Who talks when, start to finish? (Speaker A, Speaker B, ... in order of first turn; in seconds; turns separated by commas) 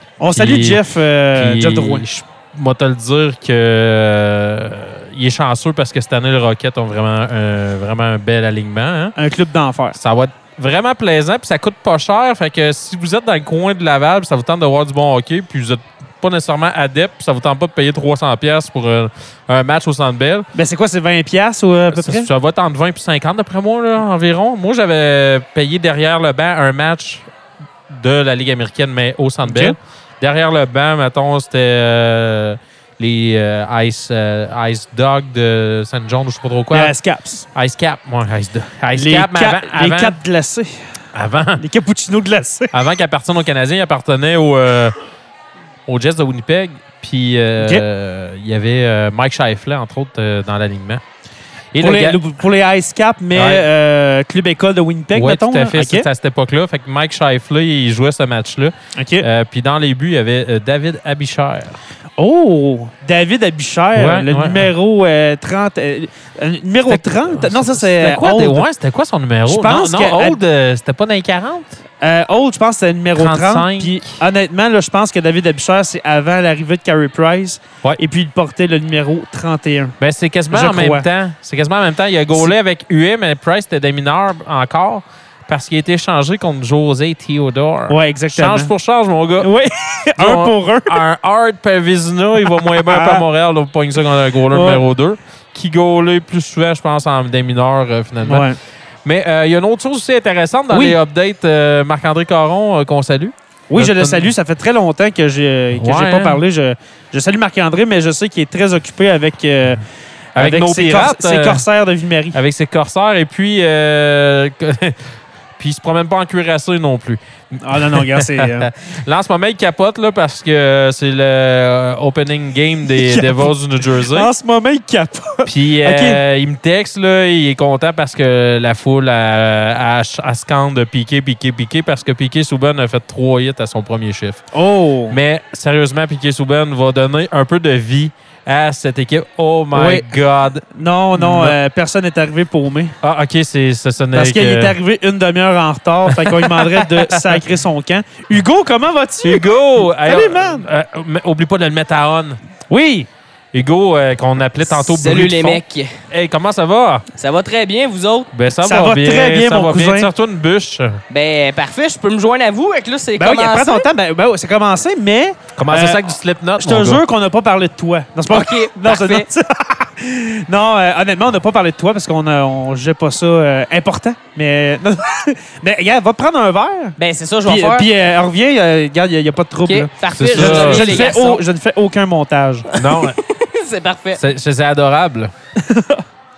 Speaker A: 0.2-2.0, Speaker B: 0.3-9.1, Speaker A: 9.2-10.0, Speaker B: 9.9-20.4, Speaker A: 20.5-22.3, Speaker B: 21.9-27.3, Speaker B: 27.9-36.9, Speaker A: 29.4-29.8, Speaker A: 36.7-37.5, Speaker B: 37.5-40.2, Speaker A: 38.9-40.7, Speaker B: 41.1-41.6, Speaker A: 41.6-42.7, Speaker B: 42.7-45.0, Speaker B: 45.9-51.0, Speaker A: 47.6-47.8, Speaker B: 51.7-52.2, Speaker A: 51.8-56.1, Speaker B: 53.3-53.7, Speaker B: 55.1-61.8, Speaker A: 58.9-59.2, Speaker A: 62.2-68.7, Speaker B: 63.9-64.7, Speaker B: 66.9-71.8, Speaker A: 69.5-70.4, Speaker A: 72.0-80.0, Speaker B: 73.1-74.1, Speaker B: 80.0-89.5, Speaker A: 80.5-81.0, Speaker A: 87.9-88.7, Speaker A: 89.4-91.0, Speaker B: 90.2-98.5, Speaker A: 92.6-93.2, Speaker A: 94.5-94.8, Speaker A: 98.2-98.6, Speaker B: 99.0-104.3, Speaker A: 100.7-101.0, Speaker A: 103.7-109.8, Speaker B: 105.7-106.4, Speaker A: 110.3-112.4, Speaker B: 110.3-111.6, Speaker B: 112.3-124.3, Speaker A: 117.6-118.7, Speaker A: 122.9-126.2, Speaker B: 125.5-134.4, Speaker A: 134.5-135.2, Speaker B: 135.1-141.6, Speaker A: 139.7-140.1, Speaker A: 140.7-142.9, Speaker B: 143.0-144.8, Speaker A: 144.1-150.7, Speaker B: 146.1-147.4, Speaker B: 149.2-152.4, Speaker A: 152.7-153.1, Speaker B: 153.5-157.1, Speaker C: 154.7-156.0, Speaker C: 157.2-158.3, Speaker B: 158.3-161.0, Speaker A: 158.6-160.1, Speaker C: 161.1-163.8, Speaker A: 163.2-166.0, Speaker B: 165.6-167.0, Speaker A: 166.6-182.7, Speaker C: 168.3-169.3, Speaker C: 177.0-177.9, Speaker C: 179.7-181.4, Speaker B: 180.2-181.1, Speaker B: 182.7-183.2, Speaker C: 182.7-184.2, Speaker B: 184.1-185.3, Speaker A: 185.6-186.0